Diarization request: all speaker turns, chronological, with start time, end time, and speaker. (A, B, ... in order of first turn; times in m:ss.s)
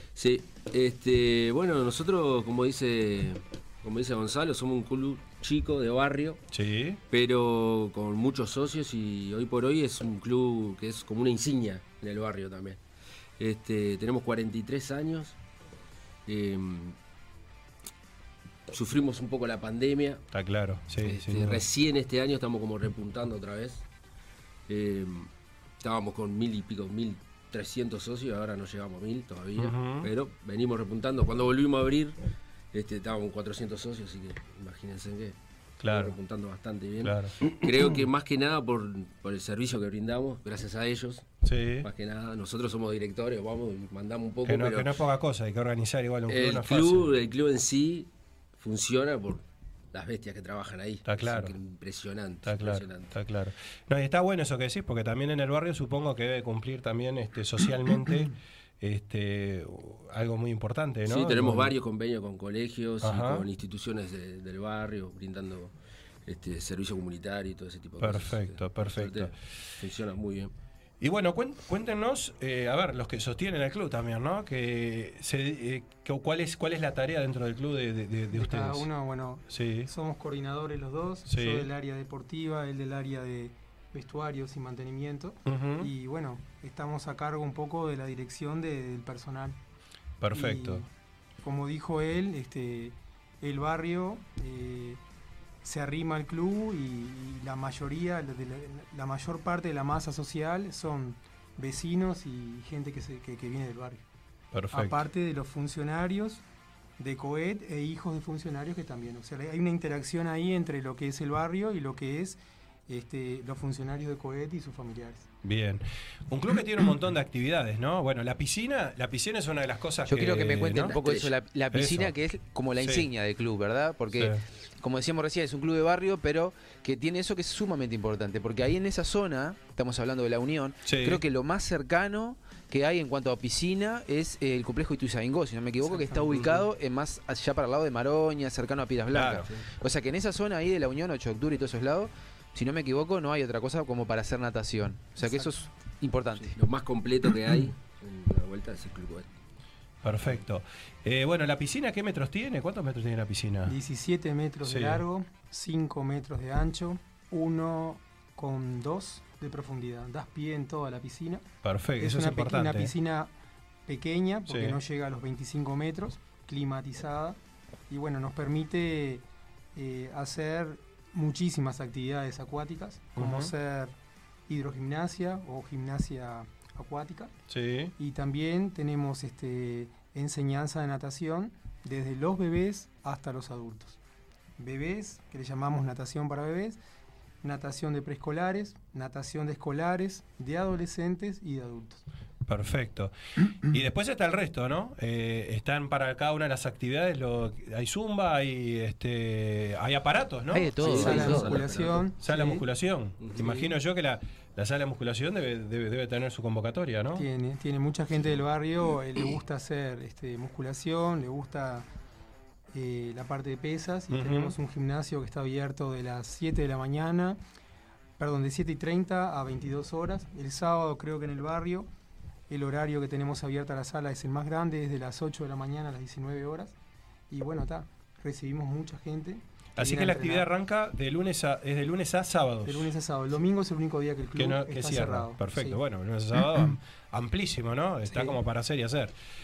0:00.2-0:06.4 A
0:06.5-0:07.0 B
0:07.1-0:12.8 A
0:13.4-0:15.4 A
0:16.3-0:17.0 A
0:18.7-0:20.2 A
0:20.3-0:21.6 B
0:21.0-0:23.8 A
0:24.7-0:25.3 A
0:25.8-0:32.2 A
0:29.6-0:30.1 B
0:32.7-0:41.2 A
0:35.8-0:36.2 B
0:37.0-0:37.4 B
0:41.4-0:41.9 B
0:41.8-0:45.0 A
0:44.5-0:47.1 B
0:46.3-0:53.1 A
0:51.0-0:51.6 B
0:52.4-1:01.7 B
1:01.1-1:05.7 A
1:03.0-1:03.5 B
1:06.3-1:10.5 A
1:08.0-1:09.3 B
1:11.0-1:18.9 B
1:18.3-1:29.6 C
1:19.5-1:19.9 B
1:21.3-1:21.7 B
1:25.5-1:25.9 B
1:30.2-1:30.8 B
1:30.3-1:30.9 C
1:31.4-1:35.0 C
1:35.6-1:44.0 C
1:44.5-1:45.1 B
1:44.7-1:46.4 C
1:47.0-1:55.3 C
1:55.4-2:01.0 B
2:00.1-2:26.6 D
2:00.9-2:01.3 A
2:01.7-2:02.1 B
2:02.8-2:03.1 B
2:10.9-2:11.2 B
2:15.9-2:16.6 C
2:19.1-2:19.5 B
2:25.2-2:25.5 C
2:26.5-2:29.3 A
2:30.0-2:33.8 B
2:33.7-2:41.4 C
2:34.6-2:35.0 B
2:41.6-2:42.9 B
2:42.0-2:43.3 C
2:43.9-2:47.4 C
2:44.5-2:44.8 B
2:47.9-2:49.2 C
2:49.8-2:53.9 C
2:53.2-2:53.5 B
2:54.5-2:57.3 C
2:57.5-2:57.9 B
2:58.0-3:04.0 C
3:04.6-3:06.8 C
3:07.4-3:12.0 C
3:12.5-3:13.1 B
3:13.7-3:21.3 B
3:20.5-3:21.5 D
3:20.8-3:22.1 A
3:20.8-3:22.6 C
3:22.2-3:27.3 B
3:23.4-3:23.8 C
3:27.2-3:31.9 C
3:32.7-3:37.4 C
3:34.1-3:34.6 B
3:38.2-3:41.9 C
3:42.5-3:46.8 C
3:47.3-3:50.5 C
3:49.8-3:52.9 B
3:52.6-3:55.8 C
3:54.4-3:59.1 B
3:58.1-3:58.4 C